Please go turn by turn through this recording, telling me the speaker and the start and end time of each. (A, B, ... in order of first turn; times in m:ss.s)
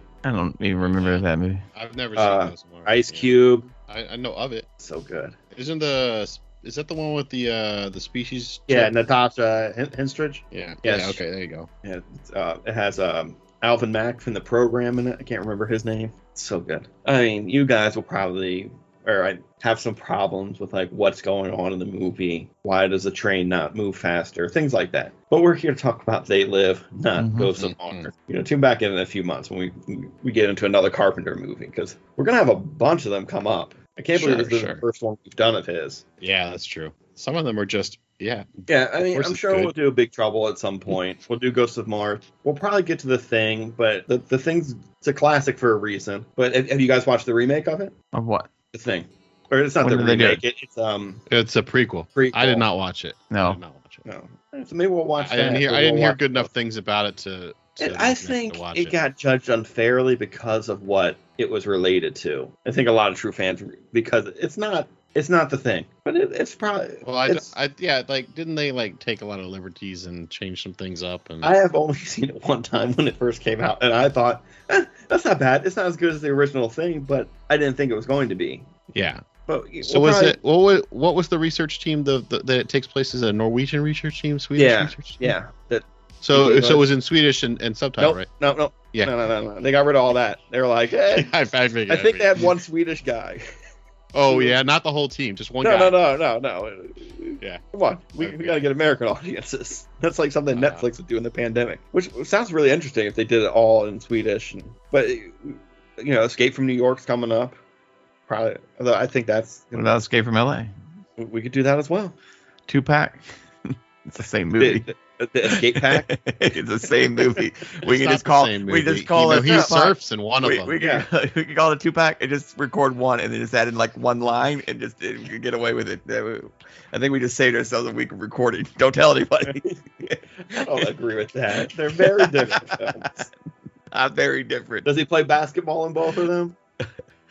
0:00.2-0:01.6 A
0:00.8-0:04.7 B
0:02.2-0:03.7 C
0:04.8-0:05.4 C
0:05.5-0:08.9 B
0:08.7-0:11.2 C
0:10.5-0:11.7 B
0:11.8-0:36.0 C
0:27.2-0:27.5 A
0:27.6-0:28.1 B
0:34.2-0:34.8 B
0:36.2-0:39.8 B
0:38.7-0:47.9 C
0:48.1-0:48.5 A
0:48.7-0:51.2 C
0:49.8-0:50.4 A
0:51.3-0:54.0 B
0:52.2-0:52.7 C
0:53.3-0:53.6 A
0:54.0-0:56.5 C
0:55.2-0:59.0 B
0:57.8-1:07.5 C
1:07.0-1:11.5 B
1:11.4-1:18.7 C
1:18.9-1:19.2 B
1:19.5-1:20.4 C
1:19.8-1:25.4 B
1:24.6-1:26.9 C
1:26.2-1:28.3 B
1:28.0-1:31.3 C
1:31.1-1:32.6 B
1:31.9-1:33.4 C
1:34.1-1:36.0 B
1:34.3-1:34.6 C
1:35.6-1:47.6 C
1:38.2-1:38.6 B
1:40.5-1:40.8 B
1:48.3-1:50.0 C
1:49.7-1:50.7 A
1:51.2-1:52.2 C
1:52.7-1:53.2 A
1:54.1-1:54.9 A
1:54.6-1:56.1 C
1:55.5-2:10.2 A
1:57.8-2:00.8 B
1:59.3-1:59.7 C
2:00.8-2:01.1 C
2:09.5-2:09.7 C
2:10.5-2:13.3 C
2:11.6-2:13.3 A
2:13.9-2:14.9 A
2:14.8-2:16.6 C